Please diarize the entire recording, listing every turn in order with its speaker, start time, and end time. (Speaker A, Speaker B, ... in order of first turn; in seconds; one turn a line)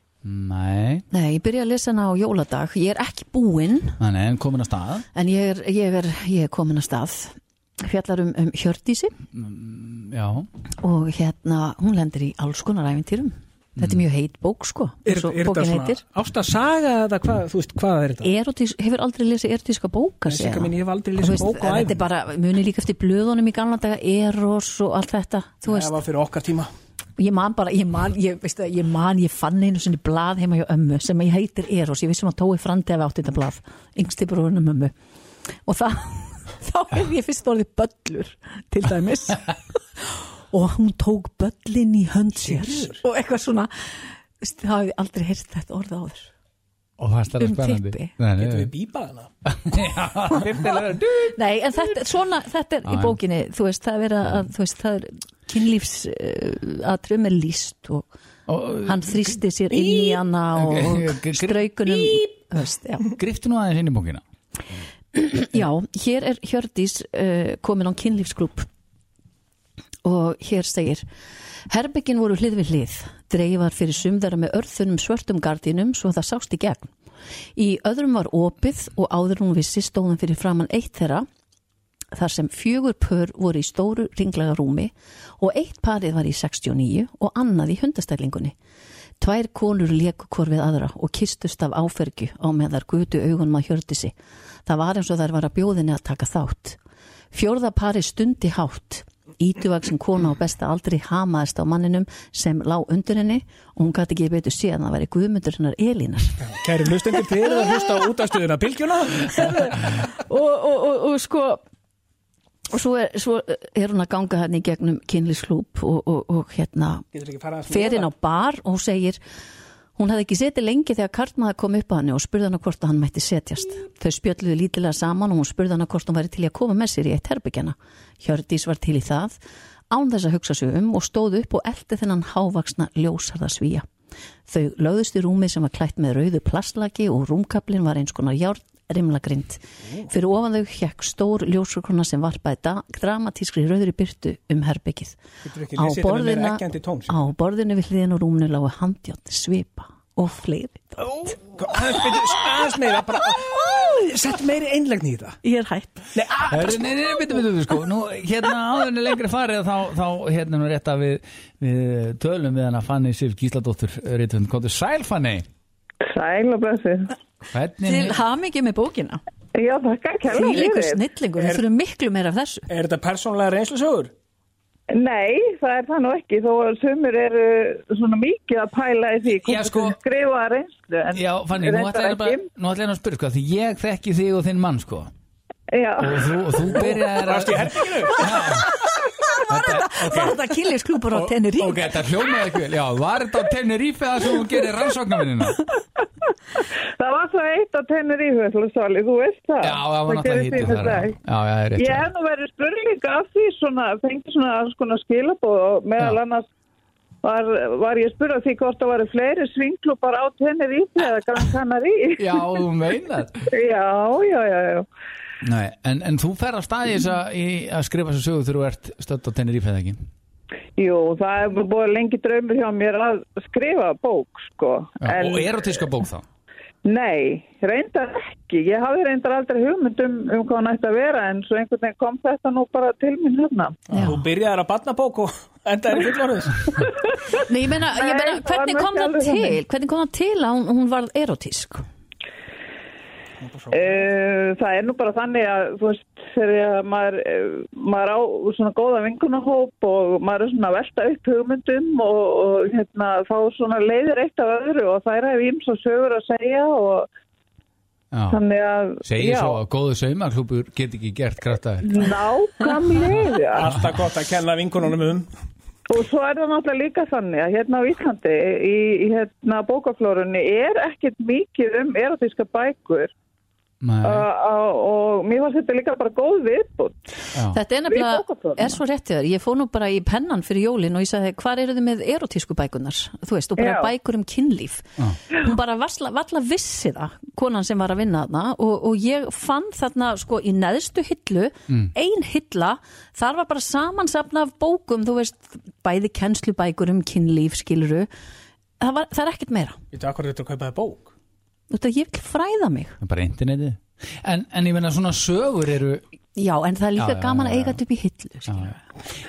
Speaker A: 0.2-1.1
Speaker B: 1.1-4.0
Speaker A: 4.0-5.1
Speaker B: 5.1-9.2
Speaker A: 9.3-10.5
Speaker B: 10.8-16.0
Speaker C: 15.1-18.3
Speaker B: 18.2-26.0
Speaker C: 20.3-22.0
Speaker C: 25.7-26.7
Speaker B: 27.2-34.9
Speaker B: 35.6-43.7
Speaker C: 42.4-43.0
Speaker B: 44.4-46.3
Speaker A: 47.0-48.7
Speaker B: 47.4-48.1
Speaker C: 48.4-49.3
Speaker A: 49.5-51.4
Speaker B: 51.4-58.1
Speaker A: 52.9-53.2
Speaker A: 58.5-59.2
Speaker B: 58.8-63.1
Speaker A: 59.7-62.2
Speaker A: 63.1-64.2
Speaker B: 65.1-68.7
Speaker B: 70.0-71.0
Speaker B: 71.7-76.9
Speaker B: 77.5-81.3
Speaker B: 82.1-88.5
Speaker B: 89.2-94.2
Speaker B: 94.7-96.8
Speaker B: 97.3-106.4
Speaker C: 106.5-109.5
Speaker B: 109.3-111.6
Speaker B: 112.7-117.0
Speaker C: 117.1-118.1
Speaker B: 117.7-119.2
Speaker B: 120.0-129.3
Speaker B: 129.9-133.8
Speaker B: 134.5-145.2
Speaker C: 145.4-147.2
Speaker B: 145.8-151.4
Speaker C: 151.6-155.4
Speaker B: 153.5-154.1
Speaker B: 155.4-156.1
Speaker C: 156.1-156.5
Speaker A: 156.5-165.4
Speaker D: 166.0-167.1
Speaker A: 167.5-168.2
Speaker B: 167.8-169.2
Speaker D: 169.6-171.0
Speaker B: 170.3-172.7
Speaker C: 171.4-171.6
Speaker C: 172.7-174.1
Speaker D: 174.9-182.4
Speaker A: 179.4-180.0
Speaker A: 181.1-185.1
Speaker D: 185.7-186.3
Speaker A: 186.0-188.8
Speaker C: 186.8-188.4
Speaker A: 189.5-190.4
Speaker B: 189.6-191.9
Speaker A: 191.2-195.7
Speaker D: 196.6-201.1
Speaker A: 199.6-202.1
Speaker D: 201.8-206.4
Speaker D: 207.2-212.6
Speaker A: 212.2-213.4
Speaker D: 213.5-214.9
Speaker A: 215.4-220.0
Speaker D: 220.8-225.6
Speaker A: 225.0-226.2
Speaker D: 226.8-233.8
Speaker C: 233.9-236.7
Speaker B: 233.9-234.2
Speaker B: 237.3-241.8
Speaker D: 237.9-239.6
Speaker C: 243.4-244.1
Speaker D: 243.7-257.1
Speaker A: 258.1-258.4
Speaker D: 258.3-259.6
Speaker A: 259.1-262.0
Speaker D: 261.8-263.7
Speaker C: 263.6-265.3
Speaker D: 265.9-273.1
Speaker A: 273.8-274.2
Speaker D: 274.0-277.3
Speaker B: 277.5-298.1
Speaker D: 277.9-278.8
Speaker D: 283.6-283.9
Speaker B: 298.8-299.8
Speaker C: 299.9-301.1
Speaker B: 301.7-303.0
Speaker A: 303.0-306.0
Speaker B: 306.4-308.8
Speaker A: 307.0-307.8
Speaker A: 308.5-308.7